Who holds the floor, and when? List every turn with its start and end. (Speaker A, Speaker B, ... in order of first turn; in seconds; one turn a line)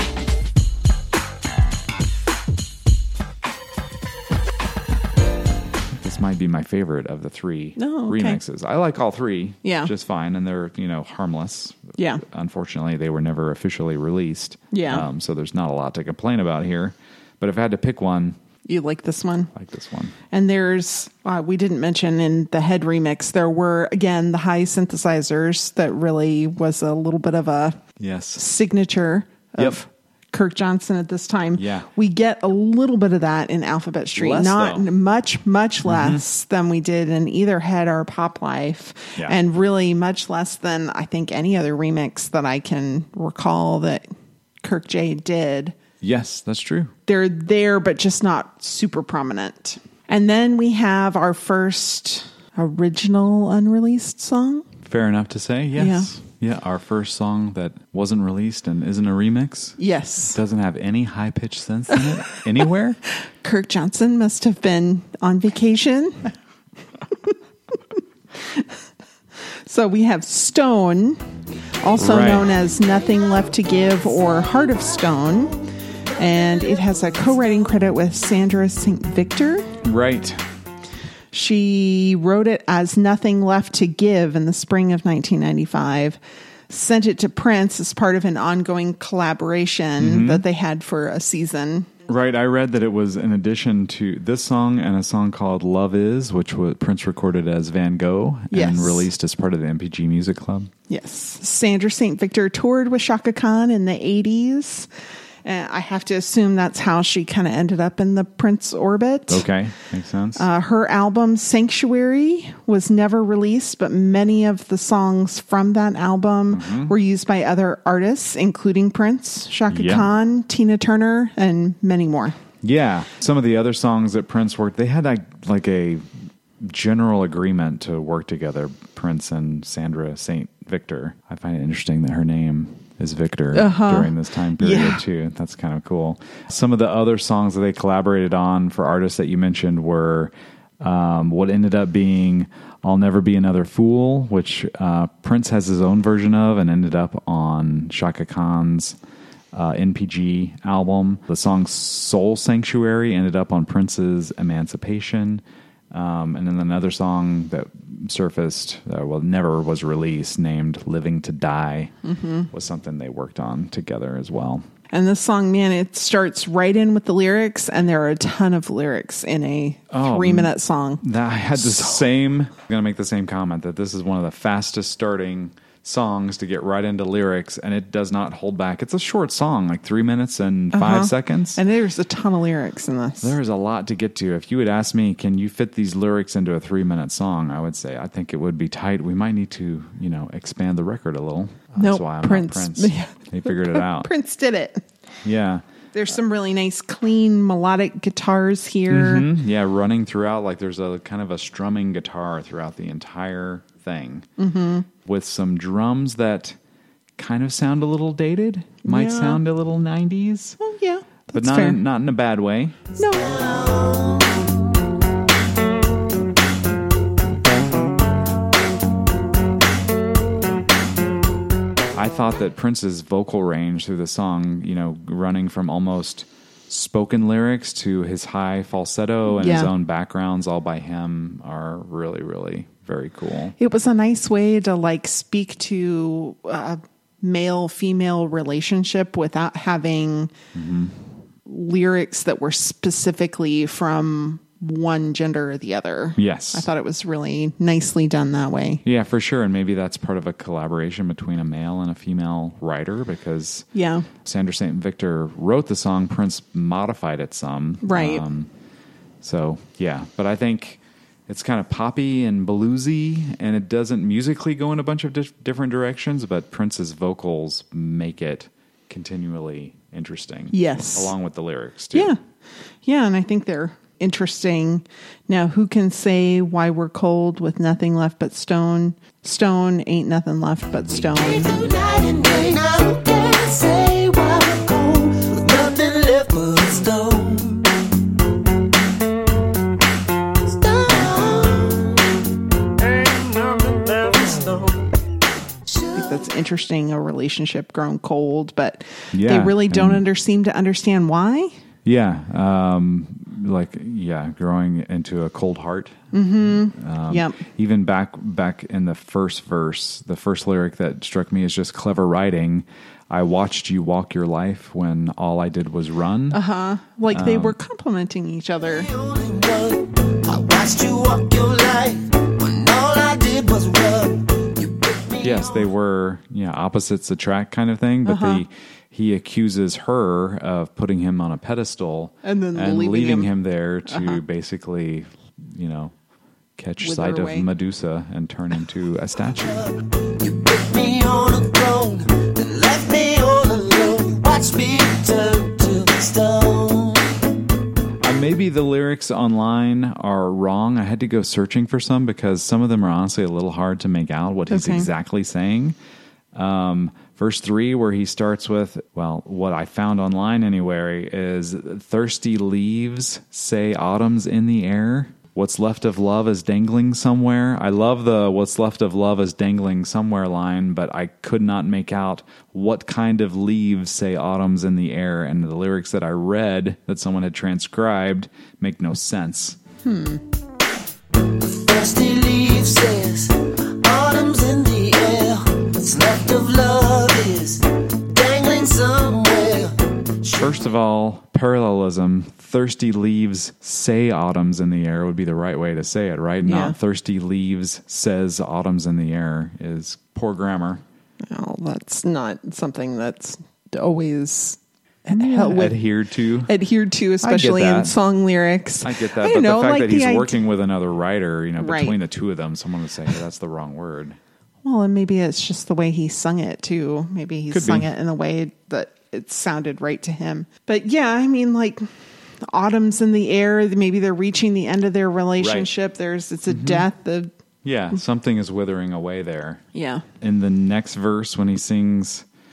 Speaker A: 6.0-18.4
Speaker B: 7.8-8.4
Speaker B: 9.6-9.9
Speaker B: 12.0-12.2
Speaker B: 14.7-15.1
Speaker B: 18.7-19.5
Speaker A: 19.5-20.1
Speaker B: 20.3-27.8
Speaker A: 28.0-28.4
Speaker B: 28.4-44.0
Speaker A: 31.6-31.9
Speaker A: 34.1-34.9
Speaker A: 35.9-36.2
Speaker B: 44.6-45.8
Speaker A: 46.0-46.9
Speaker B: 47.1-54.7
Speaker A: 54.9-63.0
Speaker B: 55.8-56.1
Speaker B: 59.8-60.4
Speaker B: 63.1-66.3
Speaker B: 69.7-71.2
Speaker B: 71.8-75.6
Speaker A: 71.9-72.5
Speaker B: 76.2-79.7
Speaker A: 79.8-80.4
Speaker B: 81.3-86.2
Speaker B: 86.7-91.9
Speaker A: 90.0-90.4
Speaker A: 92.1-100.7
Speaker B: 98.5-99.1
Speaker B: 100.9-104.9
Speaker B: 105.5-109.5
Speaker A: 109.3-110.5
Speaker B: 110.4-122.4
Speaker A: 116.5-117.0
Speaker A: 119.7-120.1
Speaker A: 122.6-126.1
Speaker A: 126.6-149.0
Speaker B: 133.5-135.0
Speaker A: 149.5-161.9
Speaker B: 162.0-162.5
Speaker A: 162.5-164.7
Speaker B: 164.9-171.0
Speaker A: 169.9-181.6
Speaker B: 171.6-171.9
Speaker B: 180.7-183.3
Speaker A: 183.2-194.1
Speaker B: 191.8-194.8
Speaker A: 195.2-195.6
Speaker B: 195.9-199.3
Speaker A: 198.9-204.3
Speaker B: 204.4-204.9
Speaker A: 205.1-206.6
Speaker A: 207.2-210.6
Speaker B: 208.8-209.4
Speaker B: 210.6-211.8
Speaker A: 211.3-212.8
Speaker B: 213.0-213.3
Speaker C: 213.1-214.5
Speaker A: 221.9-233.6
Speaker B: 229.4-229.7
Speaker B: 233.6-240.3
Speaker A: 240.5-241.0
Speaker B: 241.5-248.8
Speaker A: 246.2-246.7
Speaker A: 248.8-253.7
Speaker B: 253.7-254.1
Speaker A: 254.2-258.5
Speaker B: 257.8-258.2
Speaker A: 259.2-272.1
Speaker B: 270.5-271.1
Speaker B: 271.9-272.2
Speaker B: 272.8-281.6
Speaker C: 281.0-287.8
Speaker C: 290.4-292.2
Speaker C: 293.1-294.9
Speaker C: 295.7-296.2
Speaker B: 295.9-301.5
Speaker A: 299.1-300.0
Speaker A: 301.9-316.4
Speaker B: 306.1-307.4
Speaker B: 316.3-318.9
Speaker A: 317.1-317.6
Speaker C: 318.7-325.7
Speaker A: 325.2-335.9
Speaker B: 328.1-328.4
Speaker B: 332.2-333.3
Speaker B: 333.9-334.2
Speaker A: 336.6-339.7
Speaker B: 336.8-337.5
Speaker C: 339.5-347.2
Speaker A: 348.0-355.8
Speaker B: 354.5-354.9
Speaker A: 356.3-379.6
Speaker B: 379.8-380.2
Speaker C: 381.4-390.5
Speaker A: 390.4-400.8
Speaker B: 396.4-396.8
Speaker B: 401.3-405.8
Speaker A: 405.1-406.5
Speaker B: 406.4-410.4
Speaker A: 407.2-407.9
Speaker A: 408.8-414.2
Speaker B: 411.6-412.0
Speaker B: 414.6-421.8
Speaker A: 417.5-417.9
Speaker B: 422.4-427.3
Speaker A: 425.4-425.7
Speaker A: 426.5-426.9
Speaker A: 427.6-429.6
Speaker B: 429.7-430.0
Speaker A: 430.2-432.3